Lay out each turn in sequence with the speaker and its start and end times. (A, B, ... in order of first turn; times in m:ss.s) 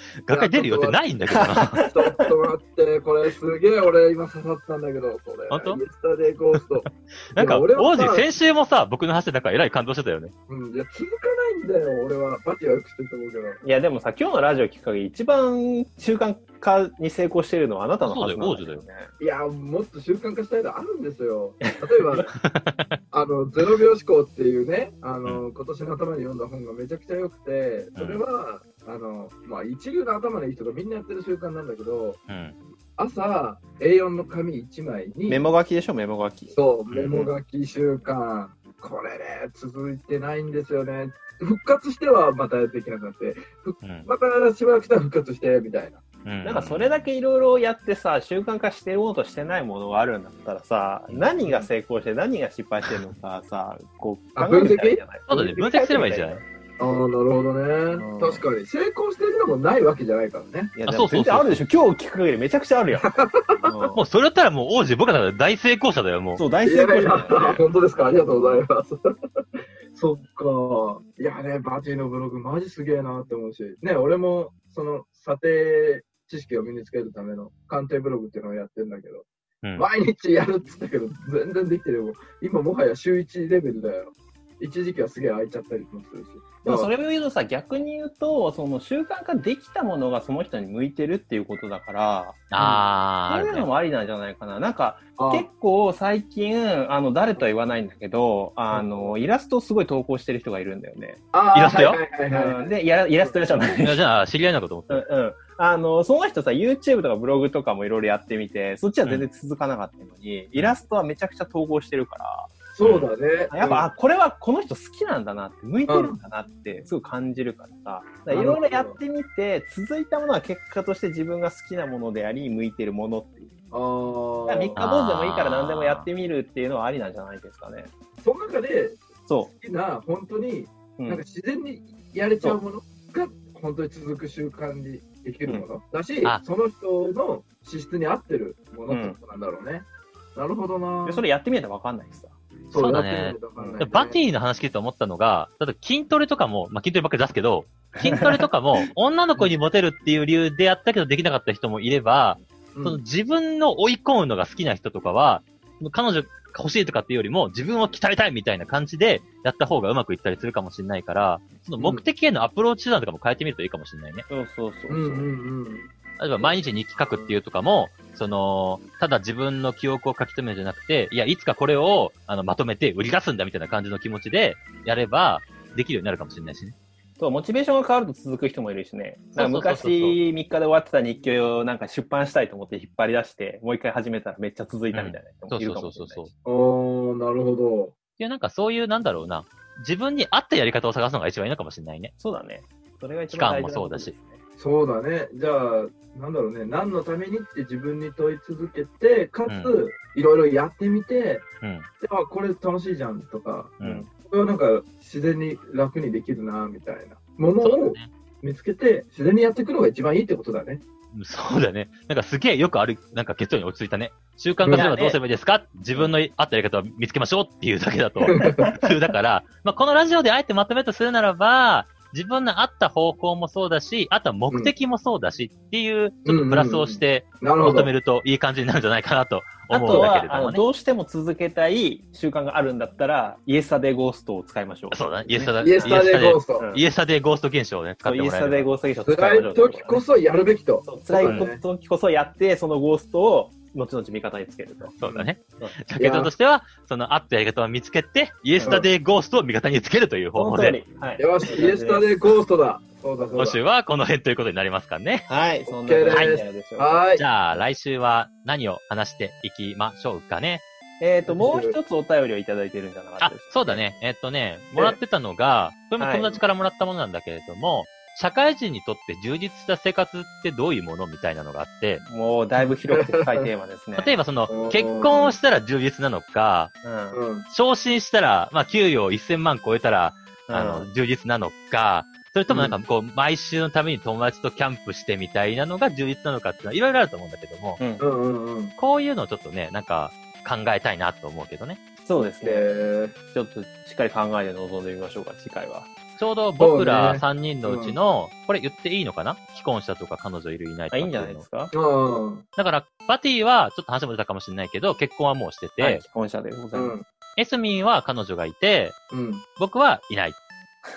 0:00.2-0:01.9 A
0:00.3-0:01.0 B
0:01.3-0:02.1 C
0:01.8-0:08.3 B
0:05.5-0:05.8 A
0:07.3-0:10.3 A
0:10.5-0:13.6 B
0:13.6-0:19.1 C
0:18.0-0:18.8 A
0:19.2-0:22.3 B
0:21.6-0:22.3 C
0:22.4-0:23.0 A
0:23.1-0:32.2 B
0:28.0-0:28.2 A
0:32.3-0:32.6 A
0:33.0-0:35.4 B
0:35.3-0:36.6 C
0:36.5-0:46.0 B
0:36.9-0:37.3 A
0:43.8-0:44.1 A
0:46.3-0:47.0 A
0:46.4-0:56.4 C
0:51.4-0:51.7 B
0:54.4-0:55.0 B
0:55.3-0:56.4 A
0:56.8-1:00.7 B
0:57.9-0:58.4 C
1:00.8-1:04.0 C
1:00.9-1:01.6 A
1:03.0-1:03.9 B
1:04.0-1:06.4 A
1:06.4-1:07.7 C
1:06.6-1:09.1 B
1:08.2-1:08.6 C
1:09.9-1:26.9 B
1:26.6-1:32.6 C
1:32.5-1:33.7 A
1:32.6-1:32.8 B
1:33.3-1:41.2 C
1:35.2-1:35.5 B
1:38.7-1:39.2 B
1:41.3-1:43.4 B
1:41.5-1:42.0 A
1:42.3-1:44.0 C
1:43.6-1:45.1 A
1:44.9-1:52.5 C
1:52.7-1:53.9 B
1:52.8-1:53.1 A
1:53.5-2:03.5 C
1:55.9-1:56.2 B
1:58.3-1:59.0 B
2:03.7-2:04.8 B
2:04.5-2:07.9 C
2:04.8-2:06.1 A
2:08.2-2:21.2 B
2:11.0-2:11.2 C
2:18.9-2:19.2 C
2:21.0-2:22.3 C
2:22.7-2:24.2 B
2:22.8-2:44.3 A
2:23.6-2:23.9 C
2:28.0-2:28.8 C
2:32.7-2:33.0 B
2:41.8-2:42.0 B
2:44.3-2:45.3 C
2:44.9-2:47.4 B
2:46.2-2:56.8 A
2:57.2-3:06.3 C
2:59.4-3:00.2 A
3:04.9-3:06.3 A
3:06.4-3:07.9 B
3:08.2-3:12.1 A
3:12.2-3:14.4 C
3:13.3-3:14.1 A
3:14.6-3:21.5 B
3:19.5-3:19.7 A
3:21.6-3:21.9 A
3:22.0-3:30.8 B
3:23.8-3:24.1 A
3:23.8-3:24.1 C
3:27.6-3:28.1 A
3:31.1-3:50.6 A
3:34.7-3:35.2 B
3:38.2-3:38.7 B
3:46.2-3:47.9 B
3:49.7-3:56.0 C
3:54.9-3:58.7 A
3:55.6-3:56.7 B
3:56.6-3:56.8 C
3:58.0-4:00.0 C
3:59.0-4:01.6 B
4:00.8-4:05.0 C
4:05.0-4:10.8 A
4:05.0-4:05.3 B
4:05.6-4:06.3 C
4:08.6-4:08.8 C
4:10.4-4:12.2 C
4:11.2-4:13.6 B
4:13.2-4:13.5 C
4:13.4-4:15.3 A
4:15.3-4:17.0 C
4:15.7-4:17.2 B
4:16.1-4:16.4 A
4:17.2-4:20.6 A
4:21.0-4:24.0 C
4:21.3-4:21.8 B
4:23.2-4:32.0 A
4:26.0-4:26.3 C
4:32.0-4:34.2 C
4:32.6-4:33.5 B
4:34.0-4:36.8 A
4:34.5-4:35.4 B
4:36.8-4:37.2 C
4:37.1-4:37.5 B
4:37.5-4:47.8 A
4:40.5-4:40.9 C
4:42.5-4:42.7 C
4:47.8-4:48.1 C
4:48.0-4:48.7 B
4:48.8-4:51.8 A
4:52.0-4:55.9 C
4:52.2-4:53.1 B
4:56.2-5:01.4 A
4:56.6-4:58.0 B
5:00.9-5:01.7 C
5:01.7-5:02.4 B
5:02.6-5:06.0 A
5:05.8-5:06.9 C
5:06.7-5:07.0 B
5:07.4-5:09.0 A
5:09.1-5:09.4 B
5:09.6-5:10.4 A